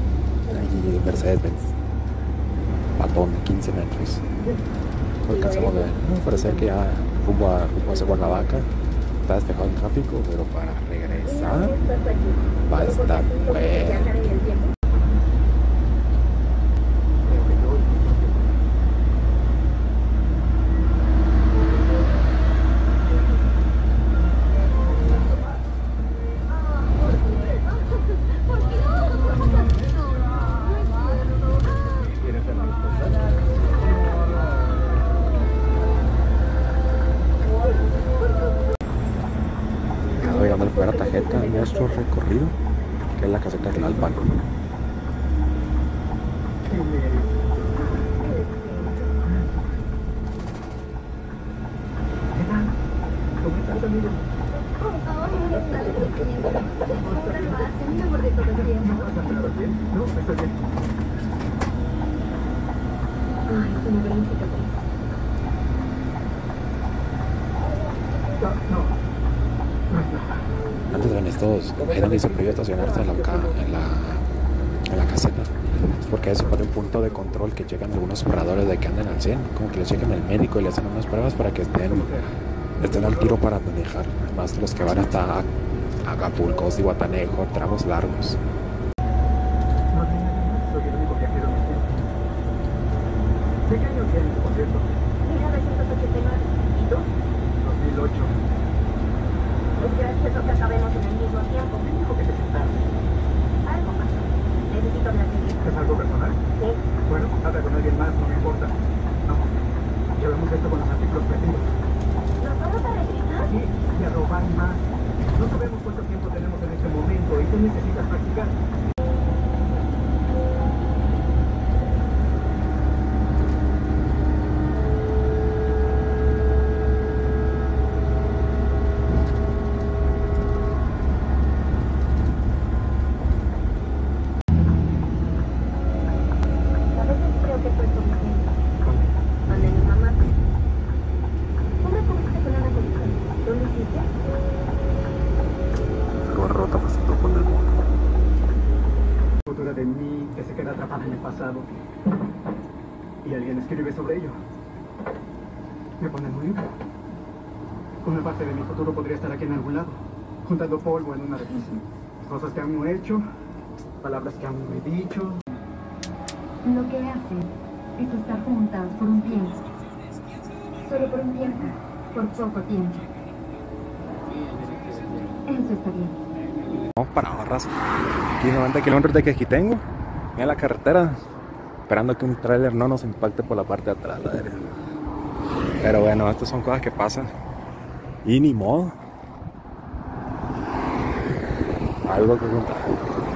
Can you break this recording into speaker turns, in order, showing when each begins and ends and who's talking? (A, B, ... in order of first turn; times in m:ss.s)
0:00.5-0:00.7 A
0:00.5-0:01.7 B
0:03.0-0:04.2 B
0:05.2-0:08.7 B
0:05.3-0:06.7 A
0:07.9-0:08.5 A
0:09.2-0:11.8 B
0:11.3-0:14.7 A
0:12.6-0:14.3 B
0:17.2-0:18.4 C
0:28.8-0:29.7 A
0:32.1-0:33.3 C
0:40.2-0:42.5 B
0:40.2-0:42.0 A
0:43.1-0:44.4 B
0:46.6-0:47.4 C
0:47.7-0:49.2 A
0:52.3-0:52.8 C
0:53.4-0:54.3 C
0:54.6-0:59.6 A
0:55.5-1:00.6 C
1:03.5-1:04.7 A
1:08.4-1:09.0 C
1:09.9-1:10.4 C
1:10.9-1:14.2 B
1:11.8-1:13.5 C
1:14.9-1:22.1 B
1:21.9-1:22.2 C
1:22.8-1:25.5 B
1:22.8-1:23.3 C
1:26.0-1:28.4 B
1:29.9-1:31.9 C
1:33.6-1:34.9 C
1:35.2-1:37.1 A
1:37.6-1:38.3 C
1:39.8-1:41.8 A
1:41.8-1:42.8 C
1:43.6-1:45.6 A
1:45.6-1:46.4 C
1:47.0-1:49.5 C
1:50.1-1:51.7 C
1:52.4-1:53.5 A
1:53.5-1:58.6 C
2:17.0-2:18.6 A
2:19.5-2:20.2 A
2:21.8-2:24.1 A
2:26.2-2:27.8 B
2:29.5-2:31.7 C
2:33.2-2:34.4 C
2:36.0-2:36.7 C
2:38.0-2:43.2 C
2:44.0-2:45.4 C
2:46.6-2:49.6 A
2:50.8-2:53.0 A
2:55.5-2:56.2 A
2:57.0-2:57.7 B
2:58.4-2:59.8 B
3:00.4-3:01.2 B
3:01.9-3:04.6 B
3:05.8-3:07.3 B
3:08.2-3:09.0 B
3:12.0-3:13.2 B